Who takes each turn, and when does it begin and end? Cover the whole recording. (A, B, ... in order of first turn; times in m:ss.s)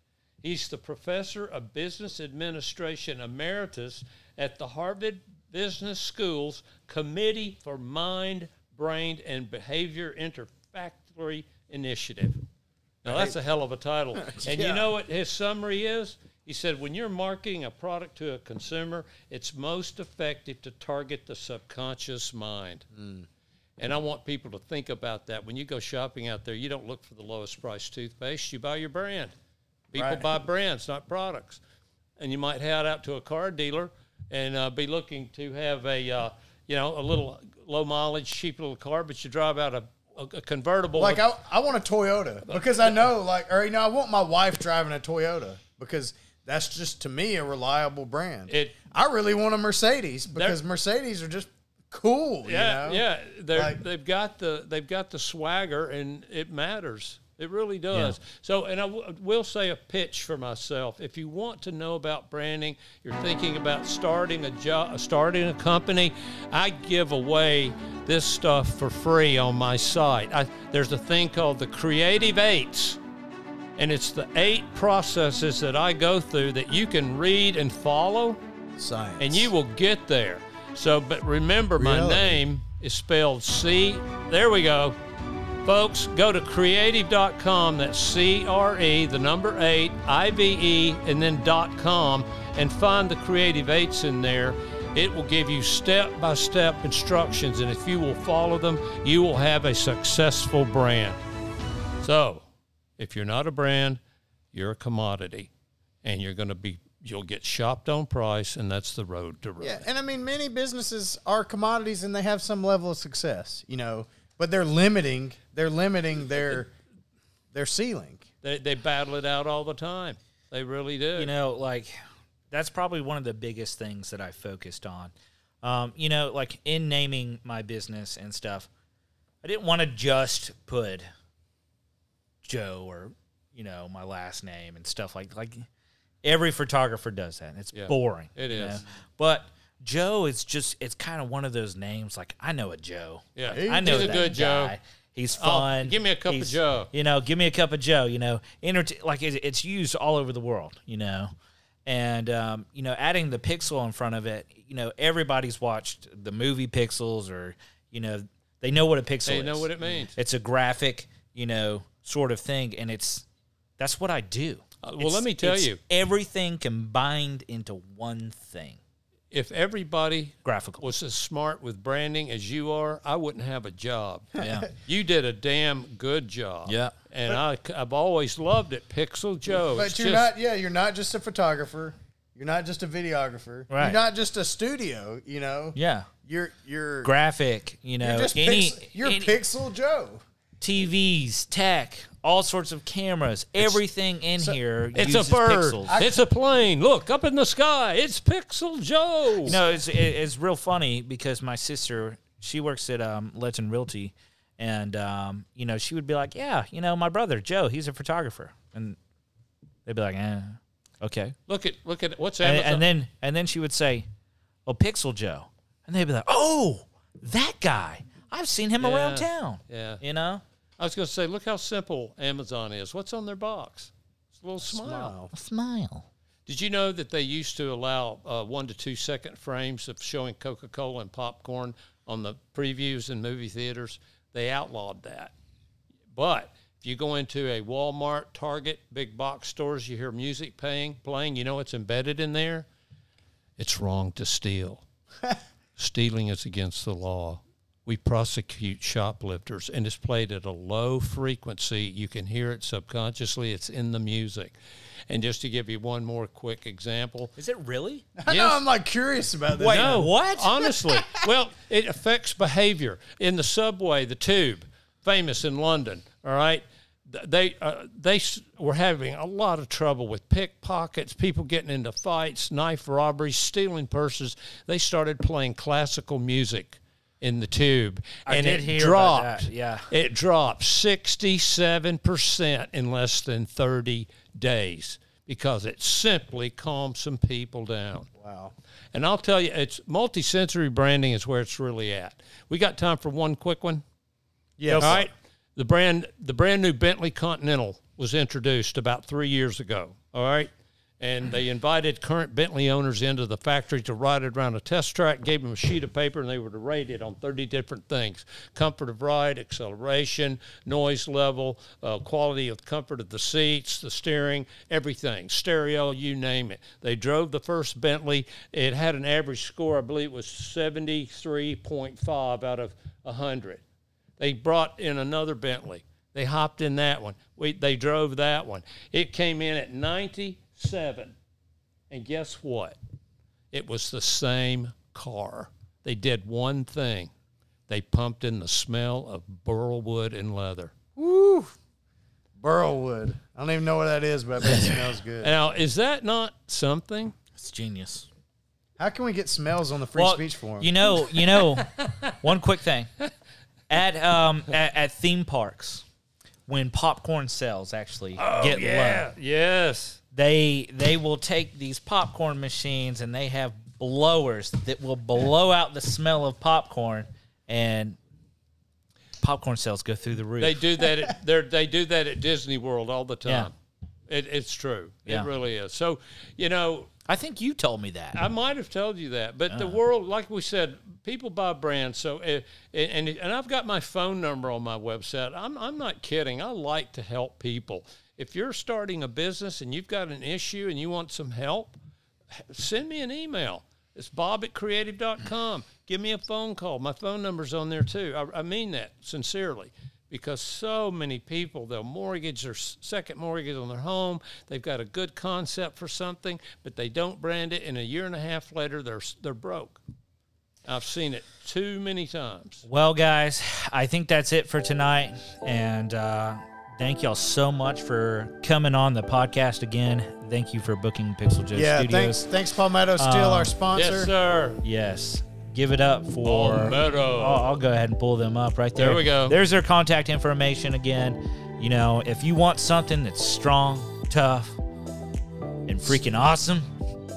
0:00.4-0:12.4 A
0:13.0-0:22.8 A
0:13.0-0:13.4 B
0:14.2-0:14.9 B
0:23.0-0:23.2 B
0:23.8-0:29.3 A
0:29.9-0:30.3 B
0:29.9-0:31.6 A
0:32.2-0:41.3 A
0:40.9-0:53.8 B
0:42.4-0:43.1 A
0:48.5-0:48.8 A
0:50.3-0:50.6 A
0:52.4-1:13.0 A
0:57.9-0:58.2 C
1:13.8-1:18.4 A
1:18.8-1:19.5 B
1:19.2-1:25.0 A
1:21.8-1:22.4 B
1:25.6-1:41.2 A
1:42.0-1:42.4 A
1:43.0-1:44.0 A
1:44.5-1:45.5 A
1:46.0-1:49.8 A
1:49.6-1:56.7 B
1:57.5-1:58.3 B
1:58.4-2:01.3 A
2:01.2-2:01.9 C
2:02.5-2:05.1 C
2:05.6-2:08.7 C
2:09.4-2:11.1 C
2:12.4-2:15.6 C
2:16.2-2:31.3 C
2:17.7-2:18.8 A
2:23.4-2:24.7 A
2:23.4-2:24.4 B
2:25.4-2:26.9 A
2:31.8-2:43.2 C
2:39.2-2:40.1 A
2:43.8-2:48.8 C
2:44.8-2:45.8 A
2:49.3-3:00.3 A
2:50.4-2:50.8 C
2:54.4-2:54.7 C
2:54.4-2:54.7 B
2:56.6-2:56.9 C
2:59.7-3:07.1 B
3:03.7-3:04.0 C
3:05.7-3:06.1 C
3:07.0-3:09.4 C
3:08.0-3:10.2 B
3:10.6-3:16.0 C
3:14.9-3:19.6 A
3:15.9-3:16.2 B
3:19.4-3:19.8 B
3:19.4-3:29.0 C
3:29.8-3:31.3 C
3:31.5-3:32.8 A
3:32.4-3:34.1 C
3:34.6-3:40.4 C
3:38.8-3:40.0 A
3:40.8-3:45.1 A
3:44.6-3:45.3 B
3:45.3-3:46.1 C
3:46.5-3:55.3 A
3:56.1-4:02.7 A
4:03.6-4:04.8 A
4:05.8-4:14.6 A
4:15.1-4:17.3 A
4:17.4-4:18.0 C
4:18.2-4:20.1 B
4:18.3-4:18.6 A
4:19.6-4:20.5 C
4:19.6-4:48.1 A
4:38.2-4:39.9 C
4:48.2-4:48.5 B
4:48.9-4:53.8 A
4:54.6-4:55.1 B
4:54.7-5:23.6 A
5:24.2-5:31.1 A
5:31.9-5:32.8 A
5:33.5-5:37.1 A
5:37.7-5:40.7 A
5:41.0-5:41.5 B
5:42.4-5:45.3 B
5:45.2-5:47.1 A
5:47.4-5:48.1 C
5:48.8-5:50.7 B
5:50.0-5:52.9 C
5:51.6-5:51.9 A
5:53.7-5:55.8 C
5:56.5-5:59.1 C
5:58.2-6:00.0 A
6:00.1-6:08.0 C
6:09.2-6:10.6 C
6:10.4-6:13.5 A
6:14.1-6:16.9 A
6:17.1-6:18.2 C
6:18.1-6:31.7 A
6:19.5-6:19.8 C
6:32.4-6:49.8 A
6:50.6-6:52.6 A
6:52.6-7:02.3 C
7:01.5-7:04.1 B
7:03.0-7:03.5 C
7:03.7-7:04.6 A
7:04.6-7:14.6 C
7:06.2-7:07.5 A
7:08.8-7:09.4 A
7:15.6-7:16.7 C